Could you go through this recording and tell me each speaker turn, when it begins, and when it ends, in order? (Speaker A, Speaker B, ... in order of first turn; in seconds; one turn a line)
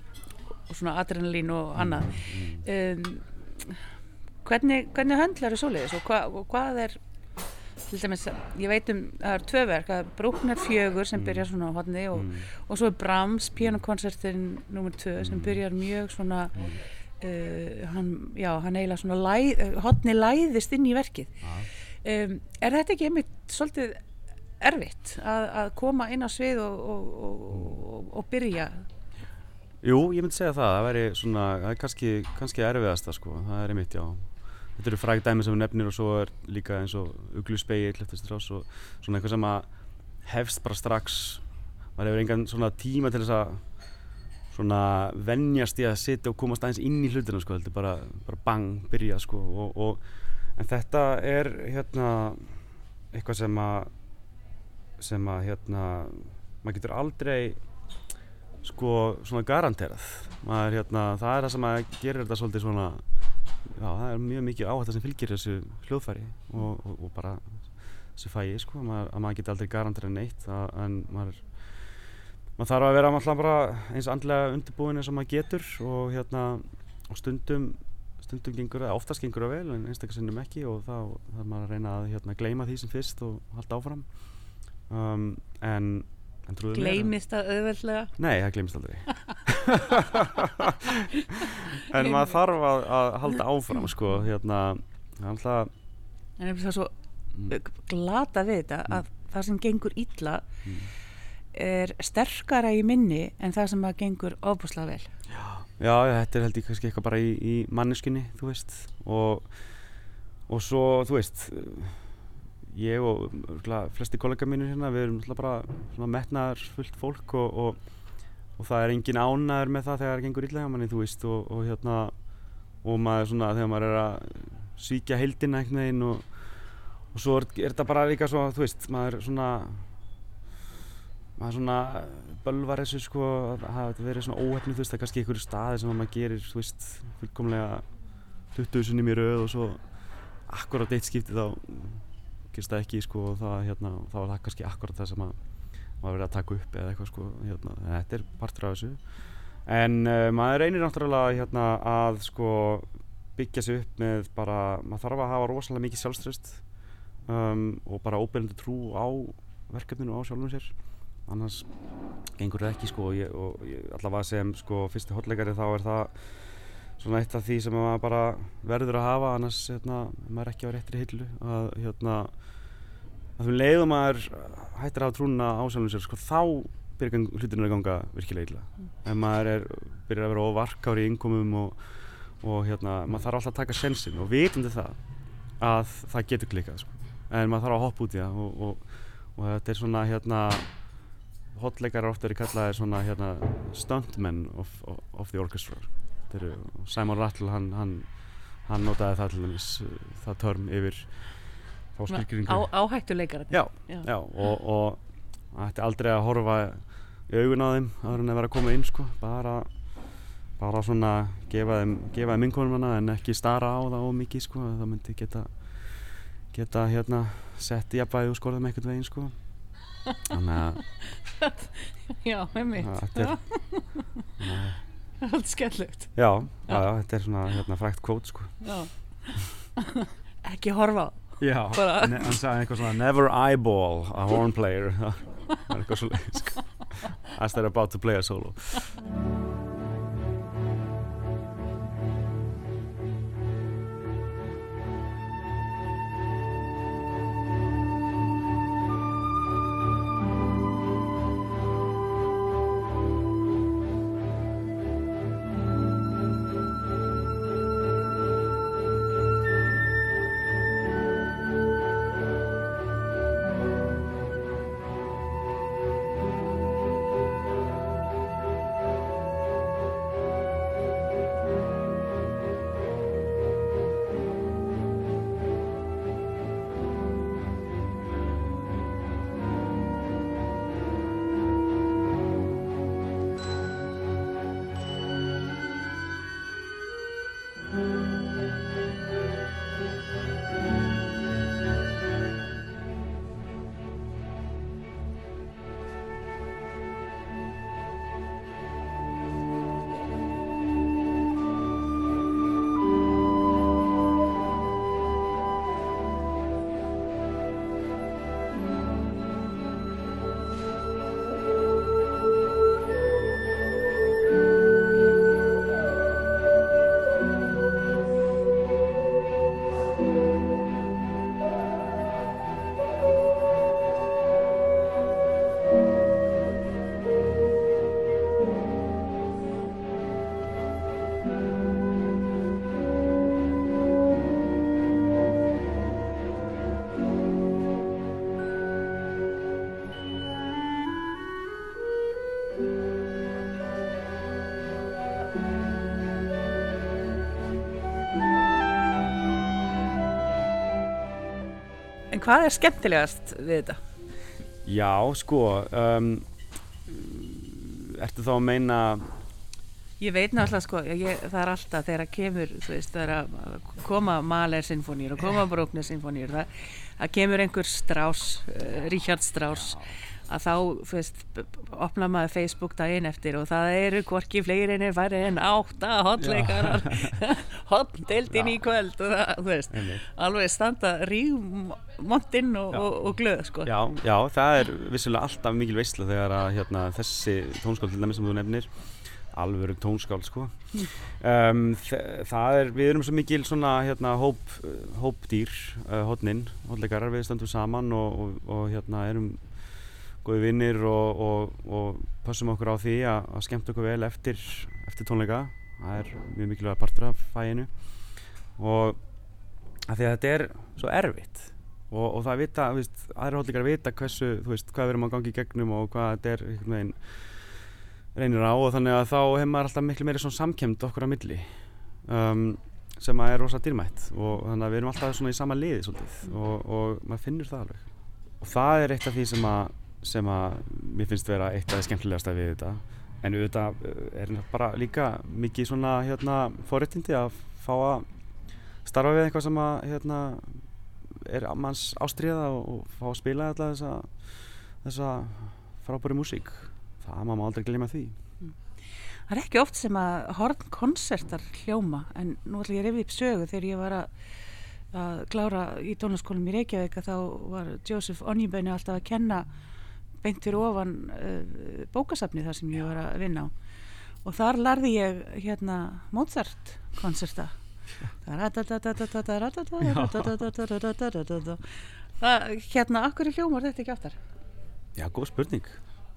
Speaker A: 0.7-3.8
Speaker B: 1.8-2.6
Speaker A: 4.4-7.0
Speaker A: 7.8-21.5
Speaker B: 11.1-11.5
Speaker B: 12.1-12.5
Speaker B: 15.2-15.6
Speaker B: 21.4-21.7
Speaker A: 22.0-24.0
Speaker A: 24.6-28.9
Speaker B: 29.8-39.7
Speaker B: 40.2-41.4
Speaker B: 42.0-43.6
Speaker B: 44.5-50.0
Speaker B: 50.6-52.6
Speaker B: 53.1-53.9
Speaker B: 55.0-57.6
Speaker B: 58.6-63.0
Speaker B: 63.6-67.6
Speaker B: 68.1-71.5
Speaker B: 72.6-84.1
Speaker B: 84.9-87.1
Speaker A: 86.7-88.1
Speaker B: 88.2-95.7
Speaker A: 90.9-92.4
Speaker A: 96.4-96.9
Speaker A: 97.5-100.5
Speaker B: 100.7-100.9
Speaker A: 101.5-105.1
Speaker B: 105.3-109.5
Speaker B: 110.5-112.1
Speaker B: 112.7-117.8
Speaker B: 118.6-122.1
Speaker B: 122.8-126.3
Speaker B: 127.1-129.9
Speaker B: 131.4-137.8
Speaker B: 138.5-139.8
Speaker B: 140.5-145.4
Speaker B: 146.0-149.0
Speaker B: 149.7-156.6
Speaker B: 157.3-160.7
Speaker B: 161.3-161.7
Speaker B: 162.4-166.5
Speaker B: 167.0-172.3
Speaker B: 173.4-181.8
Speaker B: 182.4-185.0
Speaker B: 185.6-190.7
Speaker B: 191.5-198.1
Speaker B: 198.7-201.1
Speaker B: 202.0-202.7
Speaker A: 202.1-204.1
Speaker B: 203.5-205.0
Speaker B: 205.5-209.7
Speaker B: 210.6-215.5
Speaker B: 216.5-219.4
Speaker B: 220.3-220.8
Speaker A: 220.8-224.3
Speaker B: 222.8-223.4
Speaker B: 224.4-224.8
Speaker A: 225.2-226.1
Speaker B: 226.1-228.6
Speaker A: 228.6-232.4
Speaker B: 231.4-238.9
Speaker A: 352.1-353.8
Speaker B: 354.6-356.2
Speaker B: 356.9-359.1
Speaker A: 360.0-383.7
Speaker B: 369.6-369.9
Speaker B: 376.2-377.2
Speaker B: 378.3-378.6
Speaker B: 379.7-380.1
Speaker B: 383.6-399.4
Speaker B: 400.2-407.7
Speaker B: 408.6-409.0
Speaker B: 409.9-417.2
Speaker B: 418.1-427.9
Speaker B: 428.4-438.1
Speaker B: 438.9-444.2
Speaker B: 444.8-448.2
Speaker A: 449.3-454.1
Speaker A: 454.9-459.5
Speaker A: 460.2-463.5
Speaker A: 464.2-467.6
Speaker A: 468.1-474.2
Speaker B: 469.8-470.4
Speaker B: 474.9-475.8